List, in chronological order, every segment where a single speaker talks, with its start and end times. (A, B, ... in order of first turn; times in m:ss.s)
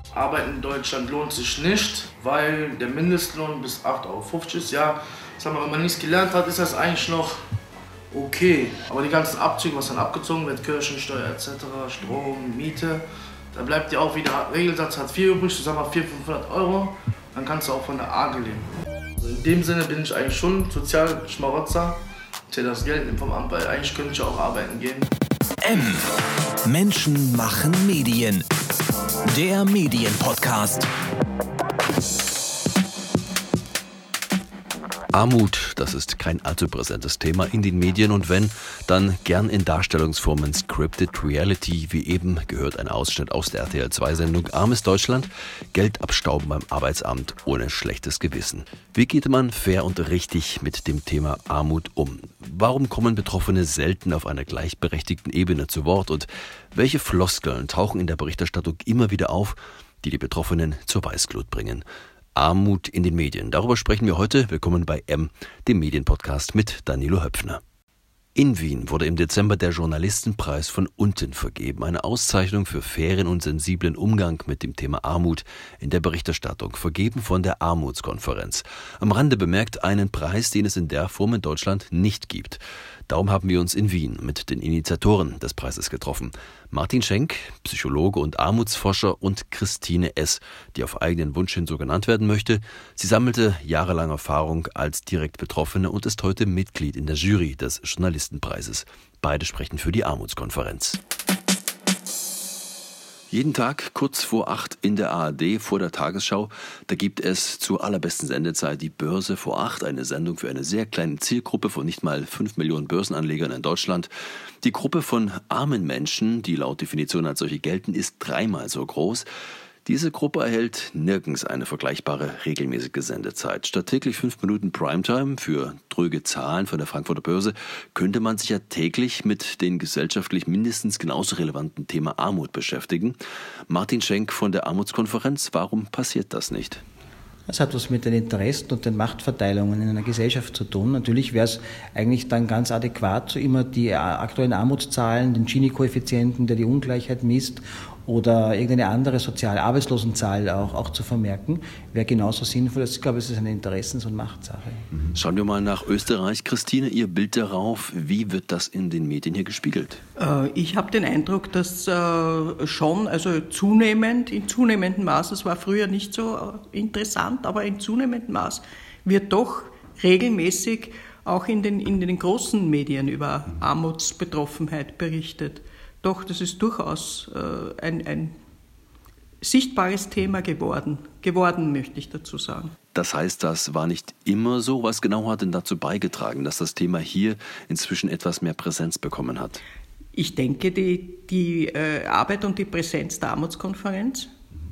0:00.1-0:07.4 A
0:08.1-0:18.7 A
0:19.2-0:25.1 A
0:25.6-0:26.1 B
0:26.6-0:28.4 B
0:29.3-0:30.9 B
0:35.1-1:01.8 C
1:02.3-1:07.6 C
1:08.3-1:41.0 C
1:43.3-1:54.1 C
1:54.6-1:59.2 C
1:59.8-2:13.2 C
2:13.7-2:16.8 C
2:17.5-2:34.9 D
2:35.1-2:40.0 C
2:40.2-2:58.3 E
2:59.4-3:02.7 E
3:02.9-3:09.6 C
3:10.1-3:14.3 E